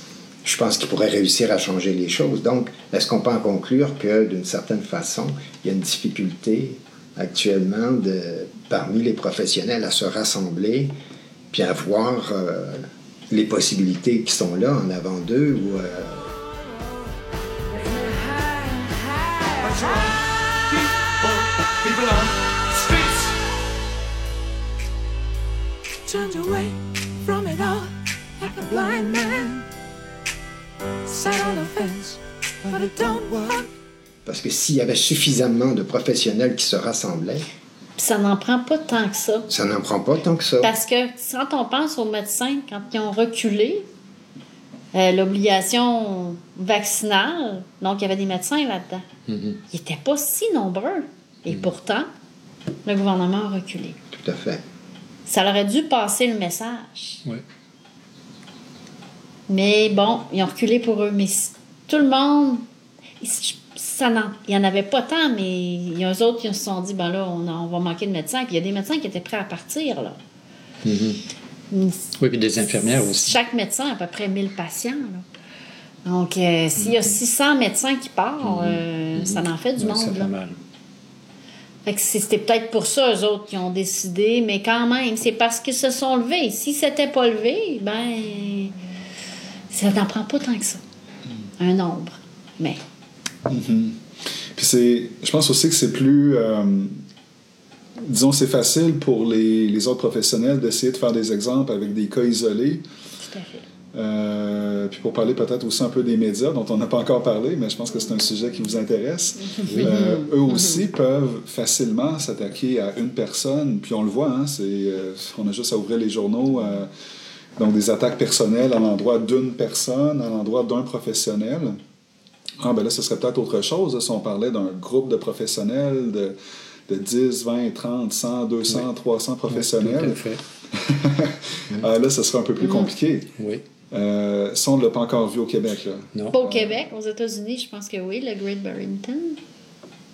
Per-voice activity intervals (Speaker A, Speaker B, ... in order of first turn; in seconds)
Speaker A: 0.4-10.9, 11.5-16.3, 34.2-37.5, 39.5-40.7, 54.1-54.6
Speaker B: 17.7-23.2, 26.1-29.6, 31.1-33.7
Speaker C: 38.0-39.5, 40.6-43.8, 44.9-49.0, 49.7-52.1, 52.9-54.0, 55.2-57.2, 59.5-62.6, 63.2-70.2, 71.7-72.0, 72.8-75.2, 76.0-80.3, 81.8-88.7, 89.7-90.8, 91.6-92.8, 103.2-103.6, 109.4-110.8, 132.6-132.9, 136.3-139.4
Speaker D: 49.3-49.6, 70.8-71.2, 72.2-73.3, 76.8-77.1, 78.4-80.6, 109.7-109.9, 129.5-130.4, 133.4-133.6
Speaker E: 93.5-94.0, 94.5-97.0, 98.0-102.8, 103.9-116.9, 117.6-121.8, 122.6-126.3, 126.9-133.3, 133.9-136.7